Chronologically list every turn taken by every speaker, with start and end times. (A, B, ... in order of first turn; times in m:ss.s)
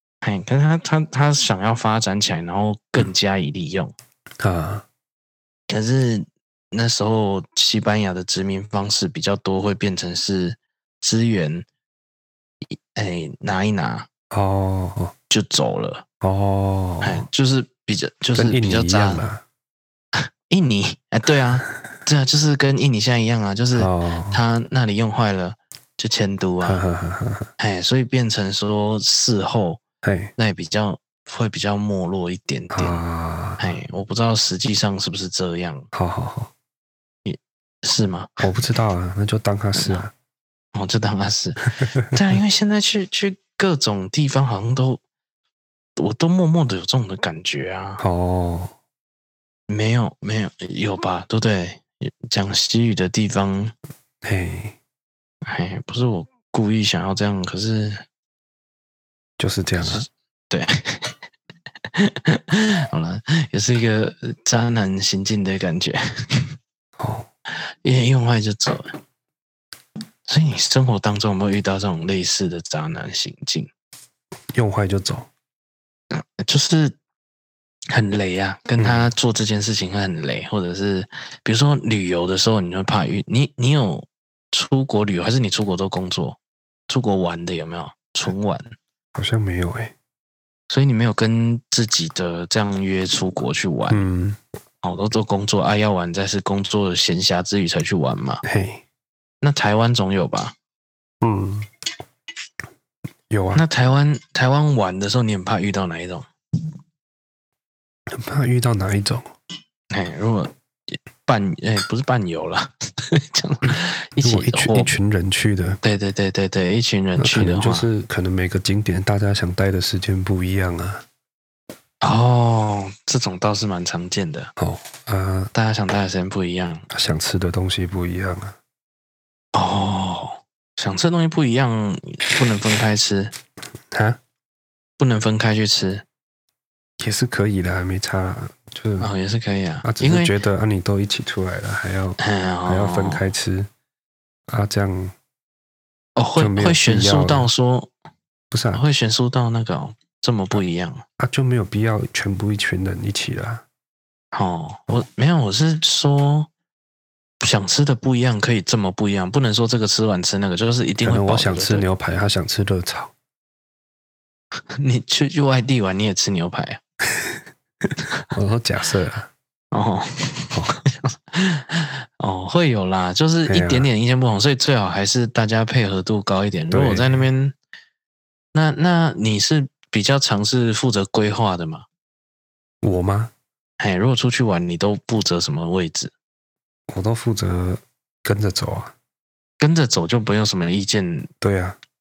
0:00.2-0:03.9 A
0:04.4-0:04.8 B
0:05.7-0:11.7 A
0:12.7-0:14.1 A
0:14.3-0:15.1 B
0:15.3-0:16.0 A
0:16.2-0:17.2 B
0:17.0-0:19.2 A
0:18.4-0:19.4 B
0:20.2-0:26.8 A
0:23.7-0:24.4 B
0:26.6-0:27.5 B
0:27.6-0:29.8 A
0:30.0-0:30.3 B
0:30.4-0:33.0 A
0:32.7-0:33.8 B
0:33.6-0:35.9 A
0:35.9-0:36.5 B
0:37.2-0:38.4 A
0:38.4-0:40.1 B
0:39.8-0:40.0 A
0:40.8-0:45.0 A
0:41.8-0:42.2 B
0:46.0-0:48.0 A
0:48.0-0:48.7 B
0:49.7-0:53.7 A
0:54.2-0:54.8 B
0:55.4-0:58.0 A
0:59.4-1:00.1 B
0:59.8-1:01.2 A
1:02.0-1:06.6 A
1:07.0-1:07.3 B
1:07.8-1:08.9 A
1:10.3-1:13.7 A
1:14.5-1:15.3 B
1:16.1-1:17.0 A
1:17.9-1:26.4 A
1:18.8-1:19.1 B
1:26.9-1:28.7 A
1:29.2-1:29.9 B
1:30.7-1:34.0 A
1:33.9-1:34.4 B
1:34.8-1:38.4 A
1:38.4-1:38.8 B
1:39.4-1:40.6 A
1:41.2-1:41.7 B
1:43.3-1:43.6 B
1:43.5-1:46.3 A
1:48.1-1:49.3 B
1:49.9-1:54.9 A
1:54.2-1:55.8 B
1:55.8-1:57.9 A
1:57.2-2:01.0 B
2:02.0-2:04.5 A
2:04.6-2:05.5 B
2:05.5-2:06.8 A
2:06.9-2:08.6 B
2:09.5-2:13.3 A
2:13.9-2:14.2 B
2:15.0-2:16.0 A
2:17.0-2:19.1 B
2:19.0-2:20.3 A
2:19.8-2:23.7 B
2:22.2-2:23.2 A
2:24.5-2:25.2 B
2:26.2-2:27.9 A
2:26.4-2:27.5 B
2:28.5-2:28.8 B
2:28.7-2:31.0 A
2:31.2-2:33.6 B
2:34.3-2:36.5 A
2:37.4-2:41.9 A
2:41.0-2:43.1 B
2:44.8-2:46.8 A
2:48.3-2:49.3 B
2:49.7-2:57.6 A
2:53.5-2:53.9 B
2:56.7-2:57.3 B
2:58.5-3:01.9 A
3:02.8-3:03.3 B
3:03.8-3:06.1 A
3:06.9-3:08.9 B
3:09.6-3:11.3 A
3:11.4-3:11.8 B